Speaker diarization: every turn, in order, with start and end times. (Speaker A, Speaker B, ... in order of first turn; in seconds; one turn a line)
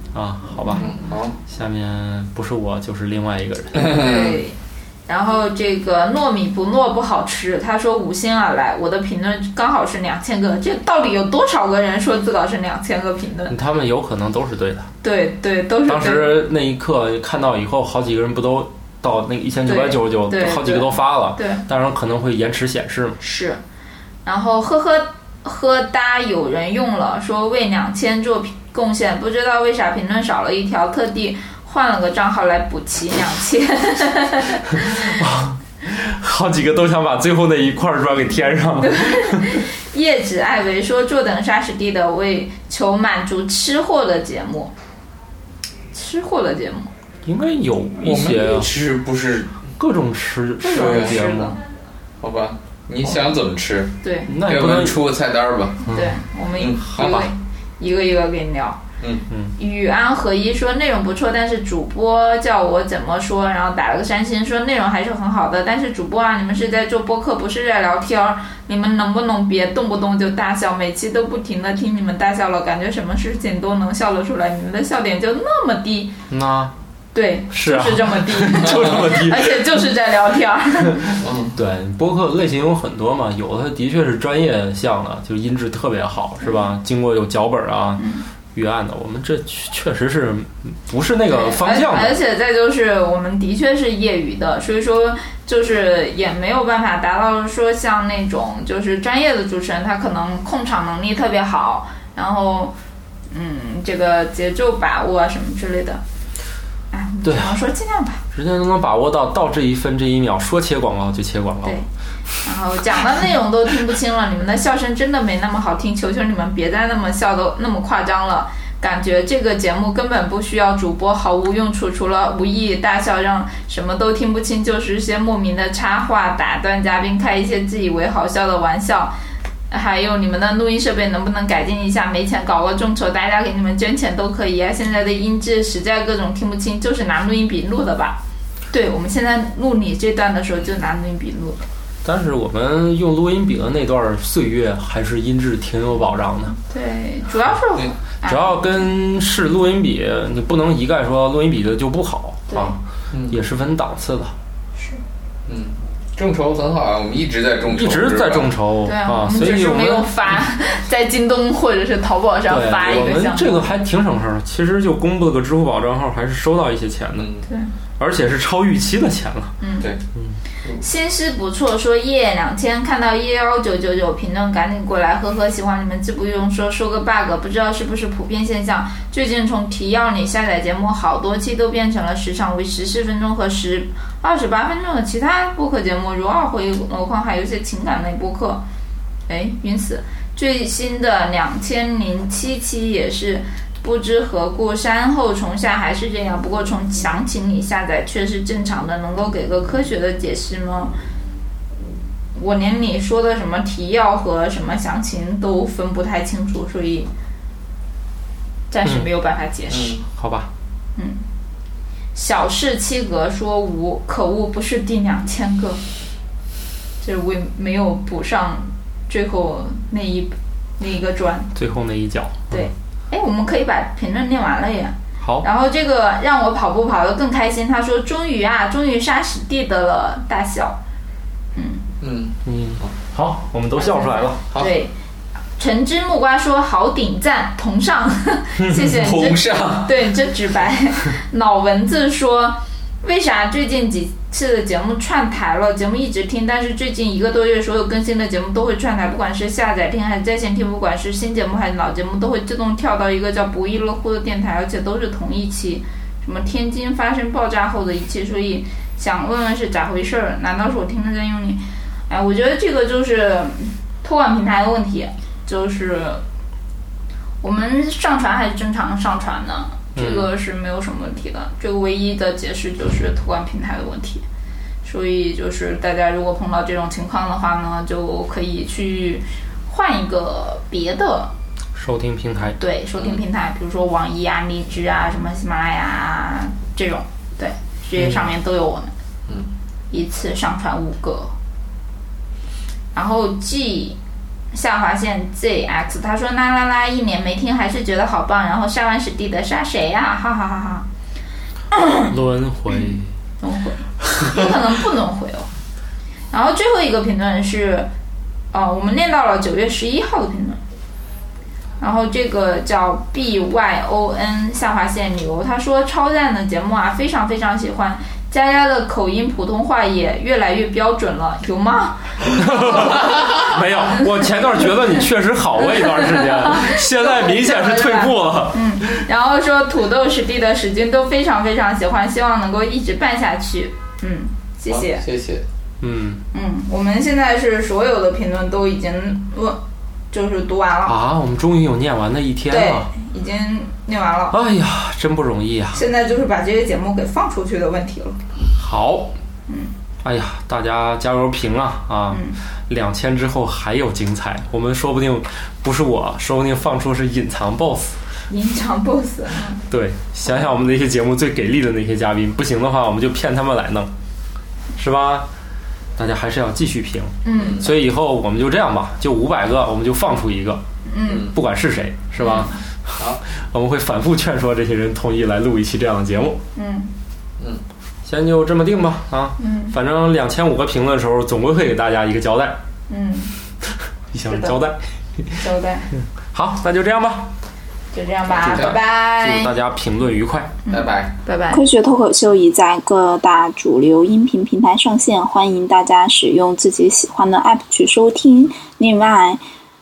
Speaker A: 0.1-0.9
Speaker B: 0.8-1.4
Speaker A: 1.5-4.1
Speaker B: 3.8-4.4
Speaker C: 3.9-4.6
Speaker C: 5.1-13.6
Speaker A: 13.5-14.9
Speaker C: 15.0-16.4
Speaker A: 15.9-23.2
Speaker C: 19.6-21.6
Speaker C: 23.2-23.6
Speaker C: 24.2-35.1
Speaker A: 34.8-39.6
Speaker C: 38.8-44.7
Speaker C: 45.9-46.9
Speaker A: 47.2-48.7
Speaker B: 48.0-49.5
Speaker A: 49.8-51.6
Speaker C: 50.6-51.6
Speaker B: 50.7-51.2
Speaker B: 52.2-55.8
Speaker C: 54.0-54.3
Speaker A: 54.3-55.0
Speaker C: 55.9-58.8
Speaker A: 55.9-56.2
Speaker B: 56.6-57.3
Speaker C: 59.6-76.1
Speaker A: 76.3-76.7
Speaker C: 77.1-81.2
Speaker A: 77.5-79.7
Speaker A: 80.9-92.2
Speaker B: 81.2-81.6
Speaker C: 88.0-88.3
Speaker C: 91.3-102.7
Speaker C: 103.3-106.0
Speaker C: 106.9-108.2
Speaker A: 107.2-107.7
Speaker A: 108.3-111.8
Speaker C: 112.4-129.1
Speaker C: 129.7-138.2
Speaker C: 138.7-141.6
Speaker A: 142.0-146.6
Speaker C: 146.6-148.8
Speaker A: 148.2-152.8
Speaker C: 152.5-152.8
Speaker A: 153.3-154.3
Speaker B: 155.5-158.5
Speaker A: 157.7-160.4
Speaker C: 158.8-163.7
Speaker A: 162.5-167.3
Speaker B: 162.9-163.2
Speaker B: 167.1-167.4
Speaker A: 168.0-169.6
Speaker C: 169.6-169.9
Speaker C: 170.8-188.6
Speaker C: 189.3-200.9
Speaker C: 202.3-207.1
Speaker C: 208.7-210.0
Speaker B: 209.7-210.0
Speaker A: 210.1-210.5
Speaker C: 210.9-211.2
Speaker C: 212.1-215.8
Speaker C: 217.0-221.5
Speaker A: 221.6-222.7
Speaker C: 222.5-230.8
Speaker A: 225.2-225.5
Speaker C: 231.6-231.8
Speaker B: 232.0-232.9
Speaker A: 232.4-234.4
Speaker C: 233.8-234.9
Speaker C: 235.6-266.2
Speaker A: 238.6-238.9
Speaker B: 238.9-240.0
Speaker C: 267.4-274.2
Speaker A: 269.9-270.3
Speaker C: 274.8-281.3
Speaker A: 281.7-282.6
Speaker C: 282.6-288.9
Speaker A: 288.0-288.2
Speaker C: 289.9-291.3
Speaker C: 292.9-294.0
Speaker C: 294.5-300.9
Speaker C: 301.7-302.1
Speaker A: 301.9-303.1
Speaker C: 302.7-305.5
Speaker C: 306.3-307.9
Speaker C: 308.5-310.6
Speaker C: 311.8-324.1
Speaker A: 322.4-329.0
Speaker C: 325.7-335.0
Speaker B: 334.7-335.4
Speaker A: 335.8-336.2
Speaker C: 336.3-339.6
Speaker C: 340.1-340.9
Speaker A: 340.9-342.9
Speaker C: 342.5-344.4
Speaker A: 344.3-345.8
Speaker C: 345.7-348.2
Speaker A: 348.6-349.2
Speaker C: 349.5-349.7
Speaker A: 350.0-358.0
Speaker C: 352.1-352.4
Speaker C: 358.3-359.6
Speaker A: 359.7-363.9
Speaker A: 364.8-365.3
Speaker A: 366.0-370.6
Speaker C: 367.2-367.7
Speaker B: 367.4-367.7
Speaker C: 370.9-371.3
Speaker B: 371.1-371.3
Speaker A: 371.2-376.4
Speaker C: 372.2-372.5
Speaker C: 376.6-376.9
Speaker A: 378.1-382.6
Speaker C: 379.4-379.7
Speaker C: 382.9-383.3
Speaker A: 384.1-385.4
Speaker C: 384.3-384.6
Speaker C: 385.4-385.9
Speaker A: 386.3-387.3
Speaker C: 387.9-389.6
Speaker A: 388.4-390.6
Speaker B: 388.4-388.8
Speaker C: 390.7-391.6
Speaker B: 390.7-391.1
Speaker D: 391.5-399.4